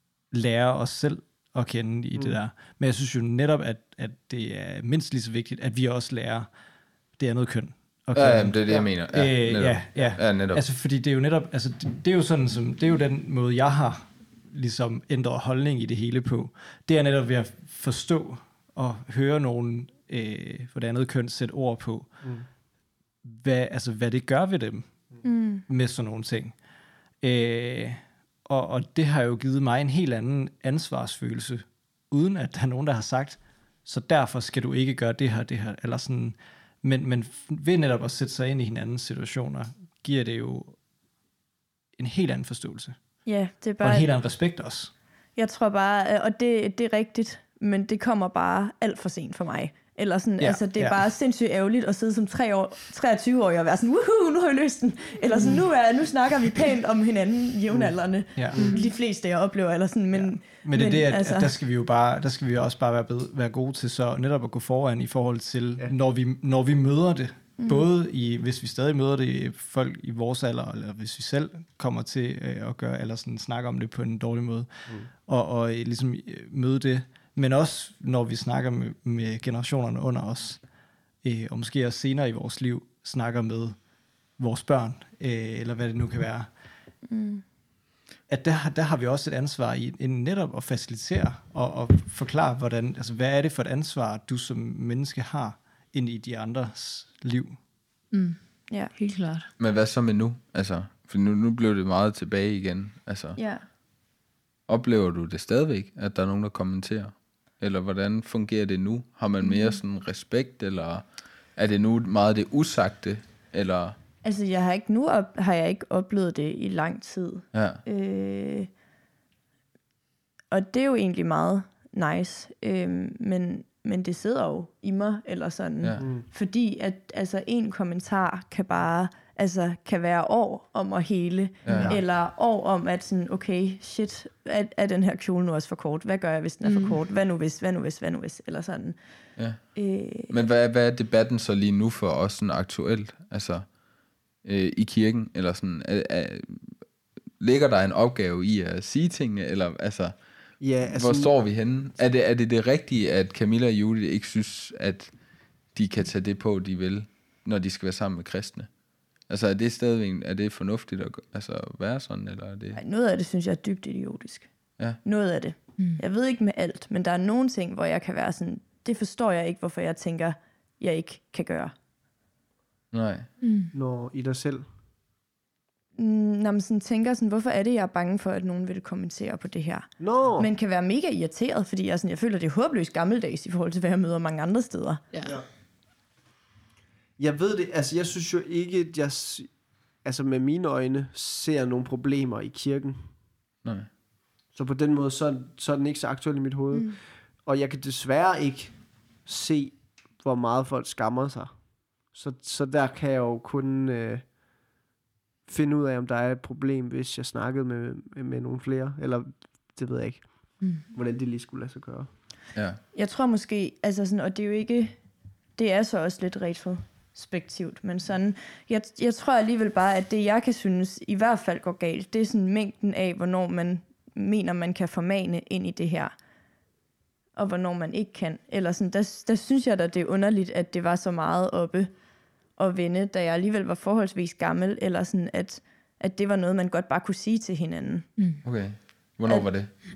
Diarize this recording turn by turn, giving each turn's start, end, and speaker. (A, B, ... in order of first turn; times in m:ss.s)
0:00.3-0:06.5 A
0:07.2-0:22.2 A
0:08.2-0:10.6 B
0:23.2-0:25.1 A
0:25.2-0:25.6 C
0:25.7-0:26.6 A
0:27.2-0:40.8 A
0:42.0-0:43.0 A
0:43.3-0:44.1 C
0:43.8-0:44.9 A
0:45.4-1:01.5 C
0:50.4-0:51.1 A
0:58.4-0:58.6 A
0:58.5-0:58.8 D
0:58.6-0:58.9 E
1:00.1-1:20.6 A
1:07.6-1:07.9 C
1:21.2-1:23.8 A
1:24.4-1:26.5 A
1:27.1-1:27.4 C
1:28.3-1:37.6 A
1:38.1-1:38.4 E
1:38.9-1:39.5 E
1:39.6-1:43.4 B
1:43.4-1:43.6 C
1:44.7-1:54.0 B
1:54.2-1:58.7 C
1:57.5-1:57.8 B
2:00.5-2:19.0 C
2:06.0-2:06.2 D
2:11.6-2:12.0 B
2:11.7-2:12.0 D
2:16.6-2:17.0 E
2:19.4-2:19.6 B
2:19.7-2:20.4 C
2:20.3-2:23.7 B
2:24.4-2:26.7 B
2:27.4-2:30.2 B
2:30.6-2:31.3 D
2:30.8-2:35.2 B
2:35.7-2:38.7 B
2:39.2-2:42.8 B
2:42.8-2:44.5 C
2:45.0-2:51.7 C
2:52.9-2:53.3 B
2:53.4-2:53.7 E
2:53.7-2:54.7 D
2:56.0-3:05.0 C
3:00.0-3:00.5 D
3:05.1-3:05.4 E
3:07.2-3:13.2 D
3:13.6-3:13.9 B
3:14.5-3:24.3 D
3:25.5-3:32.1 D
3:32.5-3:32.8 B
3:32.9-3:35.0 C
3:35.6-3:46.1 C
3:47.4-3:51.9 C
3:52.6-3:58.1 C
3:58.4-3:59.7 B